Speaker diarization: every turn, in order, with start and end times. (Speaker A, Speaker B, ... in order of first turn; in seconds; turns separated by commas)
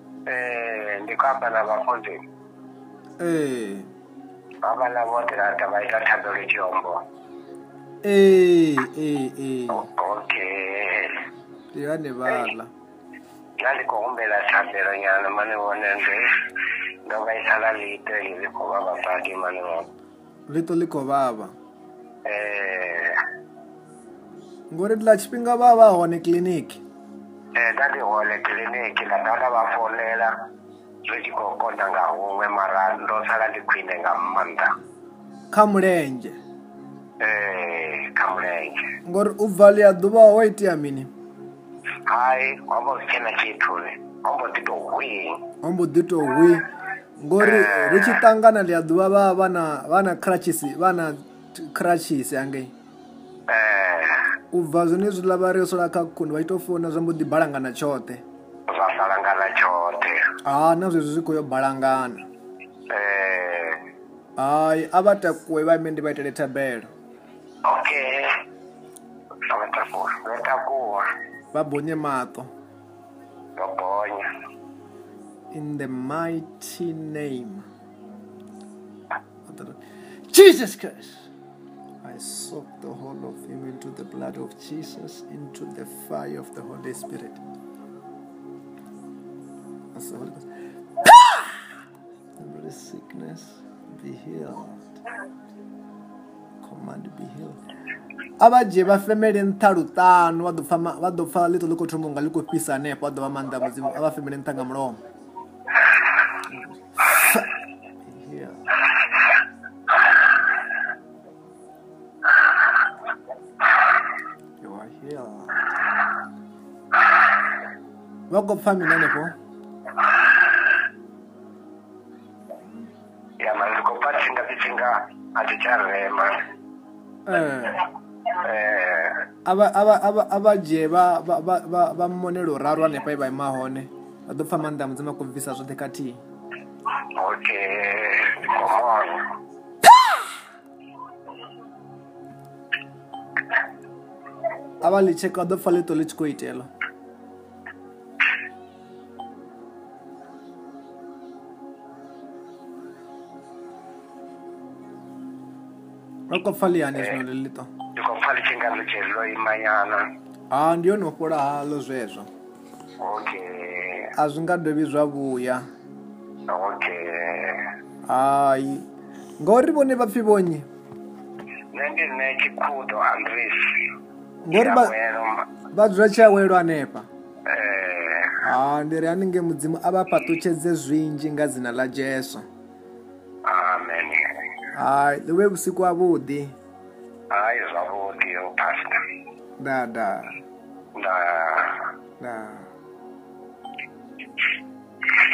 Speaker A: 0.3-2.2, Speaker B: 3.2-3.9, Speaker A: 4.6-7.0, Speaker B: 8.0-9.9, Speaker A: 9.7-11.2, Speaker B: 11.7-12.7, Speaker A: 13.6-16.3, Speaker A: 17.1-19.9, Speaker B: 20.5-21.5, Speaker A: 22.3-23.2, Speaker B: 24.7-26.8, Speaker A: 27.6-30.3, Speaker A: 31.1-34.7, Speaker B: 35.5-36.4, Speaker A: 37.2-38.8, Speaker B: 39.0-41.1, Speaker A: 42.0-45.4, Speaker B: 45.6-46.7, Speaker B: 47.2-52.7, Speaker A: 47.4-48.2, Speaker A: 53.5-54.3, Speaker B: 54.5-58.2, Speaker A: 58.7-60.3, Speaker B: 60.4-62.3, Speaker A: 62.9-63.8, Speaker B: 64.4-66.9, Speaker A: 67.6-68.4, Speaker A: 69.5-71.0, Speaker B: 71.5-72.5, Speaker A: 73.6-74.2, Speaker B: 75.5-77.6, Speaker B: 79.5-79.8, Speaker B: 80.3-81.3, Speaker B: 82.0-87.4, Speaker B: 89.9-90.4, Speaker B: 91.0-91.6, Speaker B: 92.4-95.0, Speaker B: 96.6-97.6, Speaker B: 98.4-105.0, Speaker B: 106.5-107.5, Speaker B: 108.0-108.7, Speaker B: 114.6-115.7, Speaker B: 118.3-119.3, Speaker A: 123.4-126.4, Speaker B: 127.2-127.9, Speaker A: 128.3-129.2, Speaker B: 129.4-136.2, Speaker A: 137.2-139.2, Speaker B: 144.8-146.7, Speaker B: 156.3-157.7, Speaker A: 157.9-160.0, Speaker B: 160.5-162.3, Speaker A: 163.0-164.1, Speaker B: 164.2-165.7, Speaker A: 166.5-167.7, Speaker B: 168.1-168.9, Speaker B: 169.4-170.7, Speaker A: 171.7-173.8, Speaker B: 174.5-174.9, Speaker A: 174.5-175.5, Speaker B: 175.7-177.1, Speaker A: 177.5-178.4, Speaker B: 178.4-182.4, Speaker A: 183.4-184.2, Speaker B: 184.8-186.6, Speaker A: 187.3-189.0, Speaker B: 189.6-190.4, Speaker A: 190.9-191.9, Speaker B: 192.2-192.7